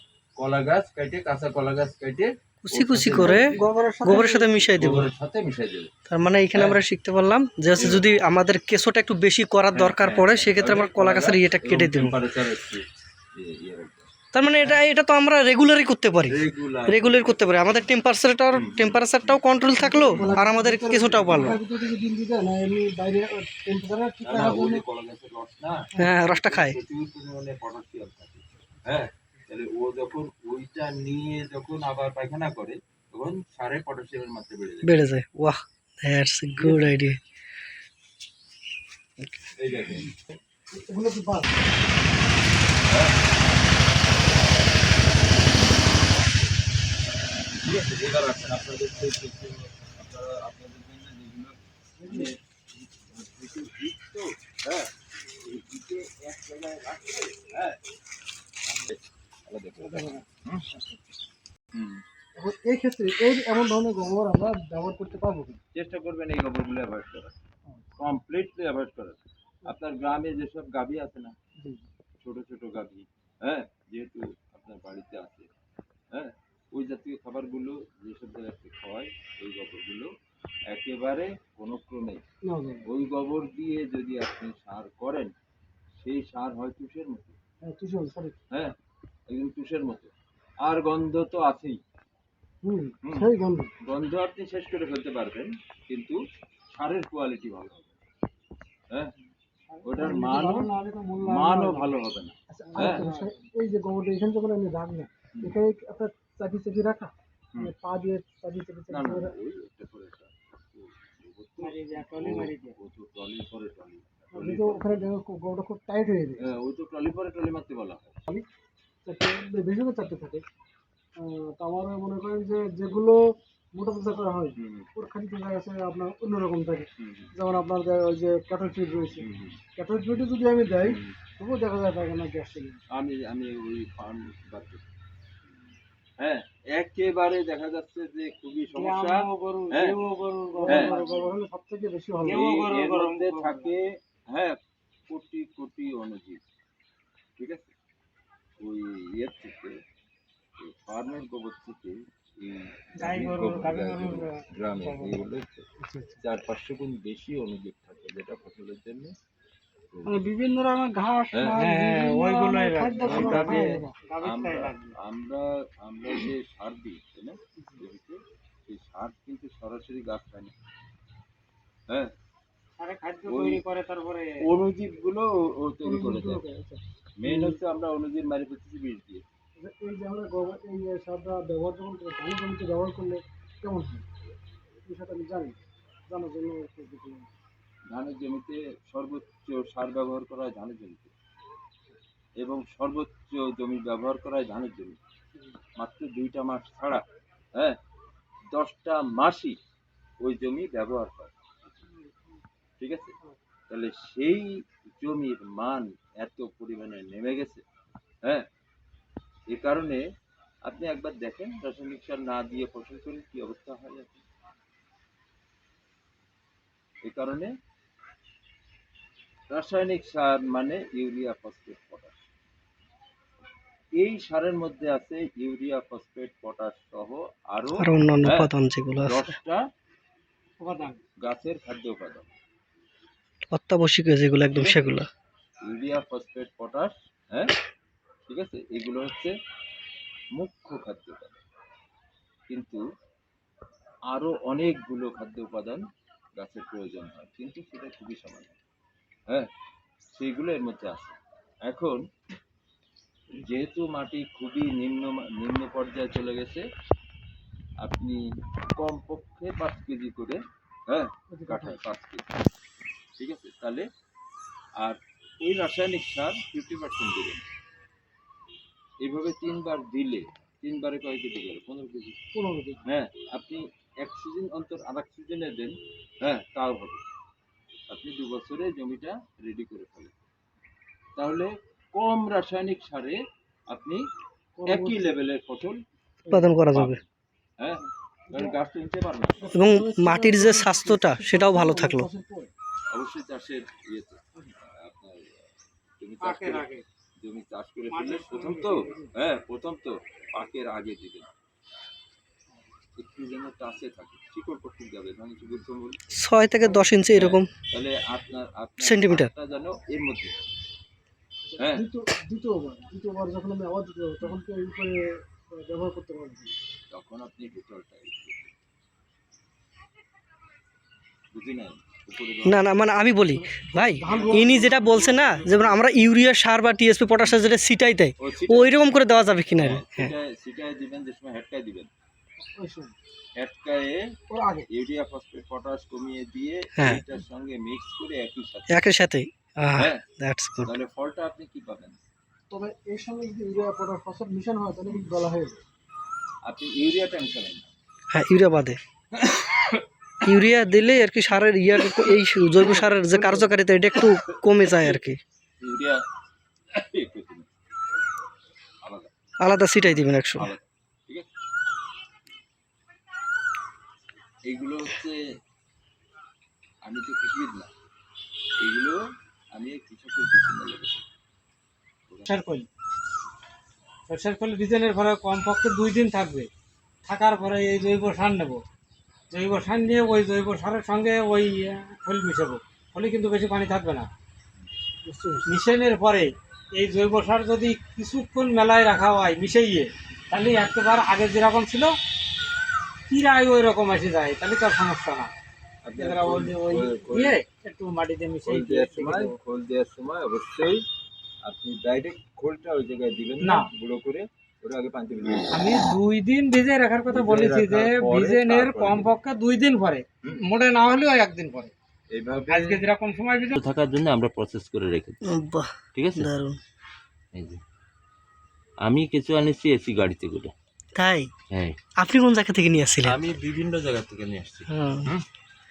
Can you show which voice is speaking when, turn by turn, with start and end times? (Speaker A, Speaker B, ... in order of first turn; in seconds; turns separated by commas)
Speaker A: 0.4-4.2, Speaker B: 2.6-5.1, Speaker C: 3.6-4.4, Speaker A: 4.7-5.9, Speaker B: 6.1-12.2, Speaker A: 6.5-6.8, Speaker A: 7.7-8.1, Speaker A: 9.7-14.1, Speaker B: 14.3-21.6, Speaker A: 16.3-17.9, Speaker A: 18.5-19.4, Speaker A: 19.9-20.4, Speaker C: 20.0-24.8, Speaker A: 21.1-21.6, Speaker A: 24.2-35.0, Speaker B: 26.0-26.8, Speaker B: 34.8-37.2, Speaker C: 36.6-36.9, Speaker A: 39.5-40.2, Speaker C: 40.7-41.7, Speaker A: 42.8-43.2, Speaker A: 45.3-46.5, Speaker A: 47.6-54.9, Speaker C: 52.0-52.3, Speaker A: 55.4-57.8, Speaker A: 58.7-60.7, Speaker D: 59.8-60.2, Speaker A: 61.8-62.0, Speaker C: 62.4-65.6, Speaker A: 65.7-67.3, Speaker A: 68.0-71.3, Speaker A: 72.2-75.5, Speaker A: 76.1-80.1, Speaker A: 80.7-82.2, Speaker C: 82.4-82.8, Speaker A: 82.8-85.3, Speaker A: 86.0-87.4, Speaker C: 87.6-88.4, Speaker A: 89.3-90.1, Speaker A: 90.6-91.8, Speaker C: 92.6-93.7, Speaker A: 93.0-93.3, Speaker A: 93.8-96.2, Speaker A: 96.7-98.0, Speaker C: 99.7-109.3, Speaker A: 99.8-103.0, Speaker D: 102.8-103.4, Speaker A: 108.9-115.1, Speaker D: 111.6-112.8, Speaker C: 114.3-116.5, Speaker A: 116.4-118.2, Speaker C: 119.0-120.4, Speaker C: 121.2-123.2, Speaker C: 123.7-132.8, Speaker A: 124.5-124.9, Speaker A: 127.0-127.3, Speaker A: 129.2-129.6, Speaker A: 130.8-131.2, Speaker A: 132.9-134.8, Speaker A: 136.2-140.0, Speaker D: 138.8-141.3, Speaker C: 140.5-142.4, Speaker A: 140.7-140.9, Speaker D: 142.2-143.7, Speaker A: 142.2-144.6, Speaker A: 145.1-146.4, Speaker A: 147.4-147.7, Speaker A: 148.6-149.8, Speaker A: 150.6-155.7, Speaker D: 153.0-155.2, Speaker C: 155.8-156.2, Speaker A: 156.2-159.2, Speaker A: 159.9-160.2, Speaker C: 160.1-163.9, Speaker A: 161.3-161.6, Speaker D: 161.6-164.9, Speaker A: 163.0-170.5, Speaker D: 172.8-174.5, Speaker A: 173.3-173.6, Speaker A: 174.4-176.4, Speaker C: 175.8-177.6, Speaker A: 177.2-179.2, Speaker C: 179.6-184.1, Speaker C: 184.9-187.3, Speaker A: 187.9-191.1, Speaker A: 192.4-195.0, Speaker A: 195.8-197.0, Speaker A: 198.5-199.6, Speaker A: 200.2-201.3, Speaker A: 202.8-203.2, Speaker A: 203.7-207.6, Speaker A: 209.5-210.0, Speaker A: 210.7-214.2, Speaker A: 217.0-217.5, Speaker A: 219.5-222.2, Speaker A: 224.0-229.6, Speaker B: 227.8-229.3, Speaker D: 230.6-231.0, Speaker A: 231.2-232.3, Speaker B: 233.5-235.1, Speaker A: 234.5-234.9, Speaker A: 235.6-237.5, Speaker A: 238.3-239.3, Speaker A: 240.4-241.4, Speaker A: 242.5-242.8, Speaker A: 244.1-245.9, Speaker A: 246.4-248.6, Speaker A: 250.2-252.0, Speaker A: 253.3-256.7, Speaker A: 257.8-258.2, Speaker A: 258.8-262.3, Speaker C: 261.3-261.8, Speaker A: 263.2-263.9, Speaker A: 264.8-267.4, Speaker A: 269.0-272.2, Speaker C: 272.3-272.8, Speaker A: 272.9-277.0, Speaker A: 277.9-280.1, Speaker A: 281.2-284.0, Speaker C: 284.6-285.2, Speaker A: 284.7-285.8, Speaker C: 286.2-286.5, Speaker B: 286.3-287.0, Speaker A: 286.7-287.0, Speaker A: 287.6-289.6, Speaker C: 288.3-288.6, Speaker C: 289.4-292.5, Speaker B: 289.5-292.1, Speaker A: 292.9-295.5, Speaker A: 296.0-296.7, Speaker D: 296.2-296.9, Speaker A: 297.2-301.3, Speaker D: 297.9-299.1, Speaker A: 303.0-306.1, Speaker B: 306.1-307.5, Speaker A: 307.1-310.3, Speaker B: 308.8-309.3, Speaker C: 311.5-316.6, Speaker A: 311.6-311.9, Speaker A: 316.9-318.5, Speaker A: 321.3-322.9, Speaker B: 322.4-330.1, Speaker C: 323.4-324.5, Speaker A: 324.0-325.9, Speaker A: 328.2-328.9, Speaker A: 329.5-331.9, Speaker C: 332.4-332.9, Speaker A: 333.4-334.1, Speaker C: 334.3-334.7, Speaker A: 334.7-339.0, Speaker B: 336.8-337.0, Speaker B: 338.7-340.7, Speaker A: 339.8-340.0, Speaker A: 340.6-342.0, Speaker C: 342.5-345.6, Speaker A: 346.4-347.7, Speaker B: 348.1-348.8, Speaker A: 349.2-349.8, Speaker B: 350.2-355.2, Speaker A: 352.6-352.9, Speaker C: 353.1-353.5, Speaker A: 353.9-355.0, Speaker A: 355.6-356.0, Speaker A: 356.7-357.5, Speaker A: 358.8-359.1, Speaker B: 359.4-360.5, Speaker A: 359.8-361.3, Speaker A: 364.4-365.2, Speaker A: 366.8-367.7, Speaker A: 368.6-369.0, Speaker A: 369.5-371.0, Speaker A: 372.1-372.4, Speaker D: 372.3-372.7, Speaker D: 374.1-376.5, Speaker D: 377.1-378.6, Speaker D: 379.3-384.1, Speaker C: 385.0-385.5, Speaker D: 385.5-391.9, Speaker D: 393.1-395.3, Speaker A: 395.8-397.4, Speaker D: 396.0-399.4, Speaker A: 398.5-400.9, Speaker A: 401.4-405.8, Speaker D: 403.4-403.7, Speaker D: 405.5-411.7, Speaker A: 407.1-409.1, Speaker A: 412.1-412.9, Speaker D: 412.5-413.6, Speaker A: 413.6-415.2, Speaker B: 415.2-416.6, Speaker A: 415.9-416.3, Speaker A: 417.3-417.6, Speaker A: 418.8-420.5, Speaker B: 420.9-421.3, Speaker A: 421.5-421.8, Speaker B: 422.0-423.2, Speaker A: 423.0-425.2, Speaker B: 424.7-425.1